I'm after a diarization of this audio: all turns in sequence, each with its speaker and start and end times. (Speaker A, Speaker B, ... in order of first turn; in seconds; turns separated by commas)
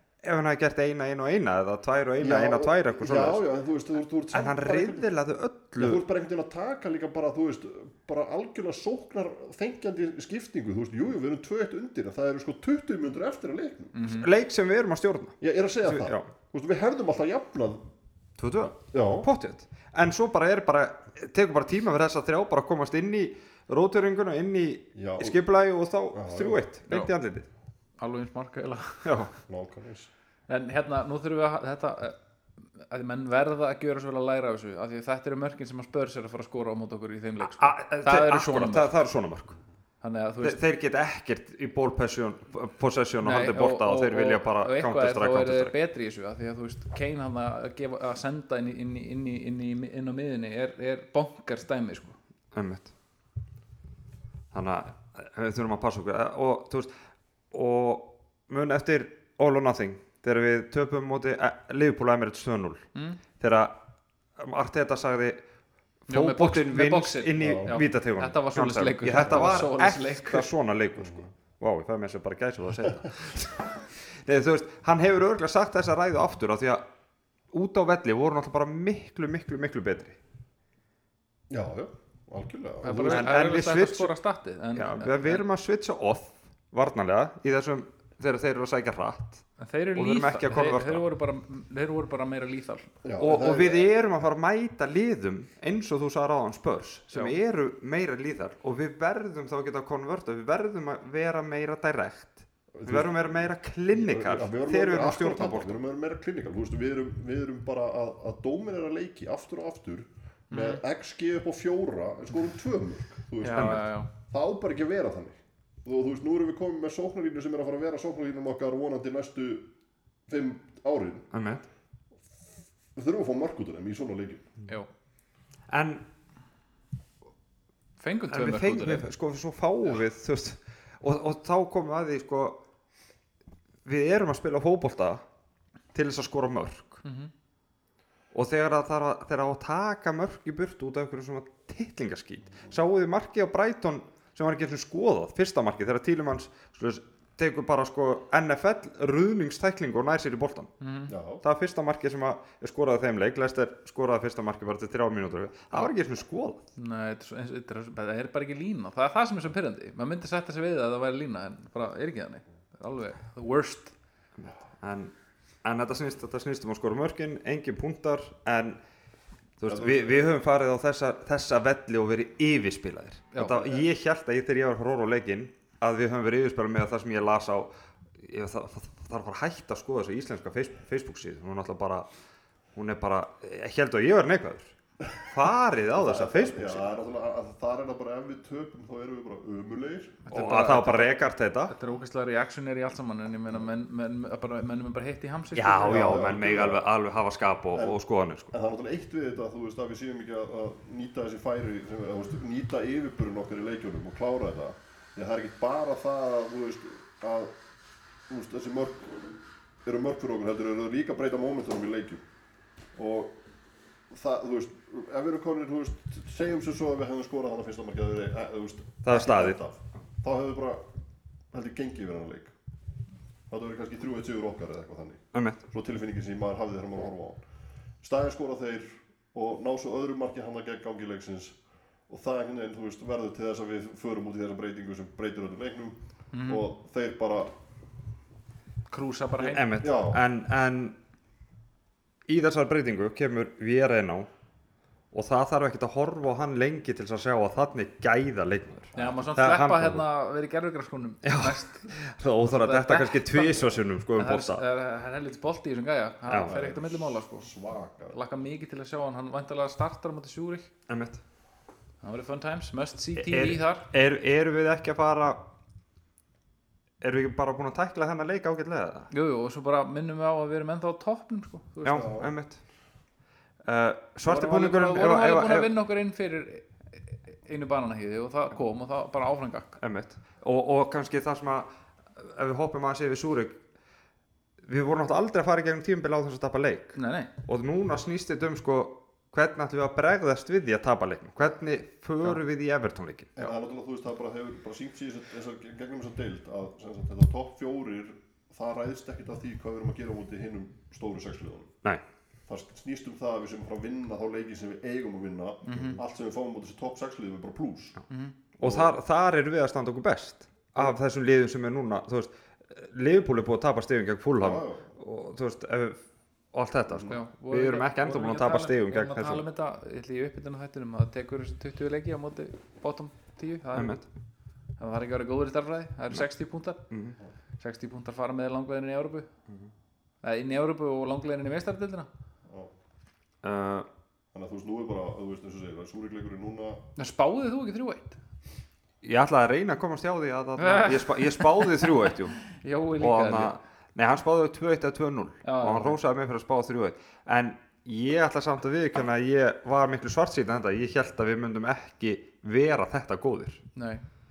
Speaker A: 0.2-3.4, Speaker B: 2.2-5.1, Speaker A: 4.3-6.0, Speaker B: 5.8-13.9, Speaker C: 13.9-14.3, Speaker A: 14.1-16.3, Speaker B: 15.4-17.9, Speaker A: 18.4-27.5, Speaker B: 18.9-19.3, Speaker B: 24.9-25.4, Speaker B: 26.1-26.6, Speaker C: 28.0-29.2, Speaker A: 29.0-29.3, Speaker B: 29.5-30.1, Speaker C: 30.5-32.2, Speaker C: 32.8-38.9, Speaker A: 37.5-39.6, Speaker C: 40.0-40.6, Speaker A: 40.4-45.7, Speaker C: 43.2-52.1, Speaker A: 52.5-52.9, Speaker A: 54.5-56.9, Speaker A: 57.5-63.8, Speaker C: 62.9-63.2, Speaker A: 64.4-65.4, Speaker C: 66.1-70.5, Speaker A: 66.1-76.8, Speaker B: 67.4-67.7, Speaker B: 69.2-69.6, Speaker B: 71.0-71.3, Speaker A: 77.5-80.2, Speaker B: 81.5-83.3, Speaker C: 82.8-85.4, Speaker A: 82.9-84.1, Speaker A: 84.7-91.0, Speaker C: 89.6-92.9, Speaker B: 93.0-93.9, Speaker A: 93.2-105.8, Speaker B: 102.7-103.3, Speaker B: 103.9-119.7, Speaker C: 110.5-110.8, Speaker C: 113.4-114.1, Speaker A: 113.5-113.9, Speaker B: 120.3-121.3, Speaker A: 121.3-121.7, Speaker B: 123.0-124.5, Speaker A: 125.7-126.0, Speaker C: 128.0-129.1, Speaker A: 128.3-132.6, Speaker A: 133.8-135.2, Speaker A: 135.9-137.0, Speaker C: 137.0-137.3, Speaker A: 138.3-150.7, Speaker C: 150.8-151.1, Speaker B: 151.1-151.4, Speaker A: 151.4-156.6, Speaker C: 156.8-163.9, Speaker A: 164.4-168.8, Speaker A: 169.6-182.1, Speaker B: 169.7-170.3, Speaker C: 173.3-173.8, Speaker A: 182.7-186.8, Speaker B: 185.9-190.2, Speaker C: 190.3-196.2, Speaker A: 190.3-191.7, Speaker A: 195.5-198.5, Speaker B: 195.8-196.8, Speaker B: 198.5-207.6, Speaker B: 208.3-212.2, Speaker B: 212.9-213.4, Speaker B: 214.1-220.8, Speaker A: 219.0-219.6, Speaker B: 221.5-222.5, Speaker B: 223.5-227.4, Speaker A: 225.3-225.6, Speaker B: 228.0-237.5, Speaker C: 236.3-236.7, Speaker C: 238.9-239.6, Speaker A: 239.4-241.0, Speaker B: 239.8-240.2, Speaker A: 242.3-244.3, Speaker A: 245.1-250.0, Speaker C: 248.9-257.5, Speaker A: 251.2-254.6, Speaker B: 256.4-258.2, Speaker C: 258.1-260.7, Speaker A: 260.9-261.2, Speaker C: 262.0-263.9, Speaker A: 263.2-265.4, Speaker A: 267.0-269.1, Speaker C: 269.1-272.1, Speaker A: 271.8-272.6, Speaker B: 271.9-272.3, Speaker A: 273.6-275.7, Speaker C: 274.2-279.8, Speaker A: 279.8-283.6, Speaker A: 284.6-293.5, Speaker C: 286.9-287.3, Speaker B: 293.4-301.8, Speaker B: 302.5-308.0, Speaker C: 305.6-306.0, Speaker C: 308.1-308.3, Speaker A: 308.6-319.4, Speaker B: 308.6-308.9, Speaker B: 314.4-314.9, Speaker C: 317.1-324.0, Speaker A: 323.7-324.1, Speaker C: 324.8-326.8, Speaker A: 326.9-327.2, Speaker C: 327.6-329.3, Speaker C: 330.2-332.1, Speaker B: 332.4-332.7, Speaker A: 333.4-333.9, Speaker B: 334.3-336.8, Speaker C: 337.0-338.2, Speaker A: 339.0-353.6, Speaker C: 340.6-341.9, Speaker C: 342.5-343.5, Speaker C: 345.4-346.0, Speaker C: 353.8-354.0